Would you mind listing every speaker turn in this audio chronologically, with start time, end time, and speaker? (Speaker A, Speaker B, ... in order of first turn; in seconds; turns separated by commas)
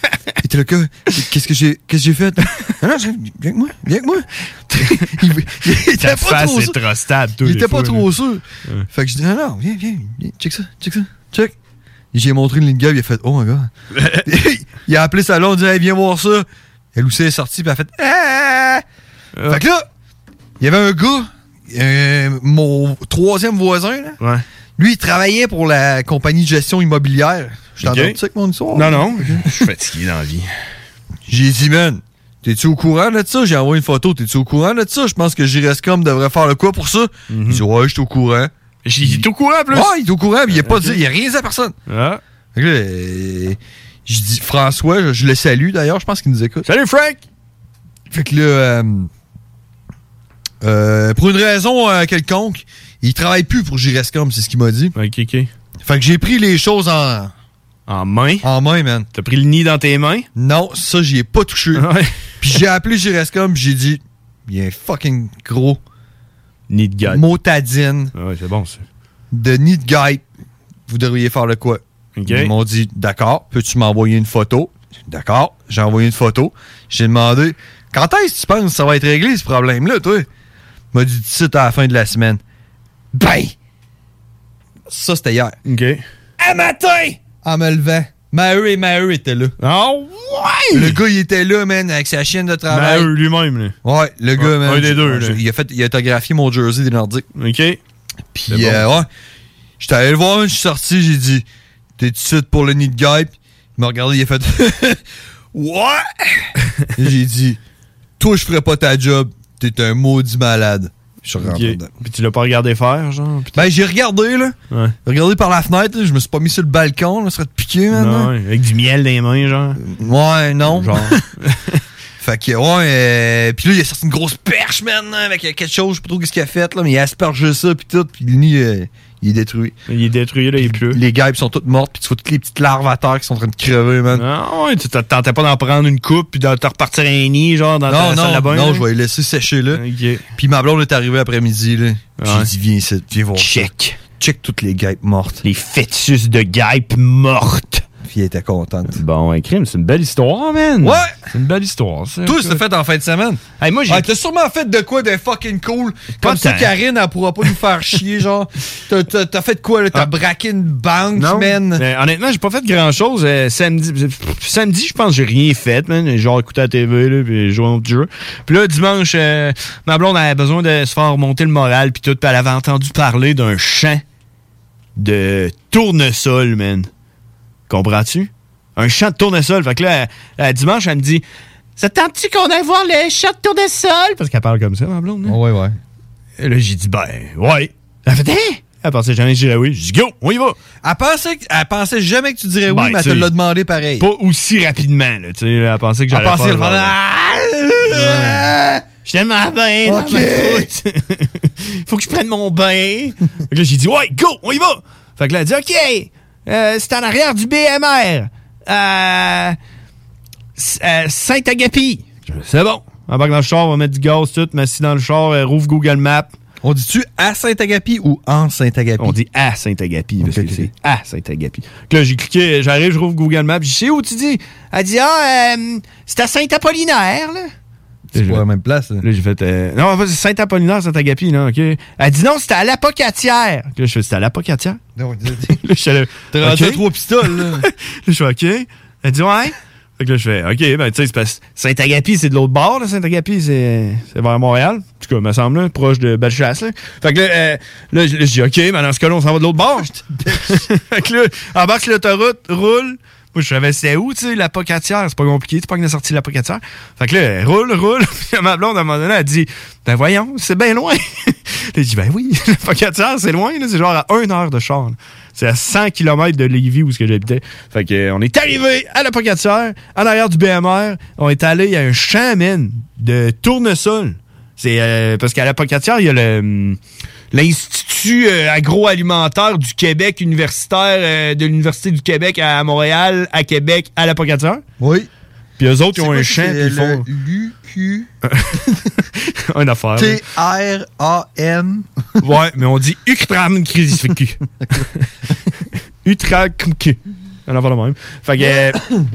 Speaker A: 0.4-6.8, Speaker B: 5.9-8.1, Speaker A: 7.4-11.5, Speaker A: 12.1-13.7, Speaker B: 13.9-14.3, Speaker A: 14.2-18.8, Speaker B: 19.4-19.6, Speaker A: 19.5-19.8, Speaker A: 20.6-24.2, Speaker A: 24.8-29.5, Speaker B: 27.8-28.2, Speaker B: 28.7-30.5, Speaker A: 31.3-38.5, Speaker B: 37.3-37.6, Speaker B: 38.9-39.9, Speaker A: 39.0-41.8, Speaker B: 40.5-41.0, Speaker B: 41.9-42.2, Speaker A: 42.5-46.7, Speaker B: 46.6-47.2, Speaker A: 48.1-49.1, Speaker A: 50.6-54.9, Speaker B: 55.0-55.5, Speaker A: 55.8-57.3, Speaker B: 57.9-58.5, Speaker A: 58.4-59.1, Speaker B: 59.1-60.3, Speaker A: 60.4-61.9, Speaker B: 61.8-62.1, Speaker A: 62.4-65.8, Speaker B: 66.7-67.2, Speaker A: 67.1-68.1, Speaker B: 68.2-68.9, Speaker A: 69.3-70.2, Speaker A: 70.9-80.3, Speaker B: 72.2-72.5, Speaker A: 80.9-82.4, Speaker A: 83.1-83.5, Speaker A: 84.9-85.6, Speaker B: 85.7-86.0, Speaker A: 86.4-89.5, Speaker B: 89.6-91.0, Speaker A: 90.7-93.1, Speaker B: 92.7-93.8, Speaker A: 93.8-97.3, Speaker B: 94.4-95.4, Speaker B: 97.4-97.8, Speaker A: 98.3-99.1, Speaker B: 98.5-98.9, Speaker A: 99.8-101.5, Speaker A: 102.0-105.0, Speaker A: 105.5-107.6, Speaker A: 108.2-111.9, Speaker B: 111.4-113.7, Speaker A: 113.5-118.3, Speaker B: 117.9-119.8, Speaker A: 119.8-121.2, Speaker B: 120.7-121.8, Speaker A: 122.2-129.8, Speaker B: 129.9-131.0, Speaker A: 130.6-134.2, Speaker B: 134.1-138.8, Speaker A: 137.9-139.8, Speaker B: 139.8-140.2, Speaker A: 140.4-145.4, Speaker B: 142.2-142.5, Speaker B: 143.4-144.0, Speaker B: 145.4-147.8, Speaker A: 148.0-149.0, Speaker B: 148.9-152.6, Speaker A: 150.8-151.2, Speaker A: 152.2-161.8, Speaker B: 153.6-154.1, Speaker B: 156.2-156.7, Speaker B: 161.2-174.0, Speaker B: 175.0-176.9, Speaker B: 177.7-181.2, Speaker B: 181.8-185.4, Speaker A: 185.2-185.8, Speaker B: 186.4-190.6, Speaker A: 190.8-194.1, Speaker B: 192.7-193.3, Speaker B: 194.0-197.0, Speaker A: 196.1-198.8, Speaker B: 197.9-198.4, Speaker B: 199.0-209.6, Speaker A: 199.8-200.7, Speaker B: 210.6-216.3, Speaker A: 216.6-219.2, Speaker B: 219.0-227.5, Speaker A: 220.2-220.7, Speaker A: 228.1-229.0, Speaker B: 228.2-228.4, Speaker B: 229.0-234.8, Speaker A: 235.0-235.6, Speaker B: 235.6-276.8, Speaker A: 236.3-237.7, Speaker A: 249.9-250.6, Speaker B: 277.3-284.6, Speaker A: 284.8-285.1, Speaker B: 285.6-287.1, Speaker A: 285.9-288.1, Speaker B: 288.3-290.2, Speaker A: 290.0-291.9, Speaker B: 292.2-295.0, Speaker B: 296.0-298.8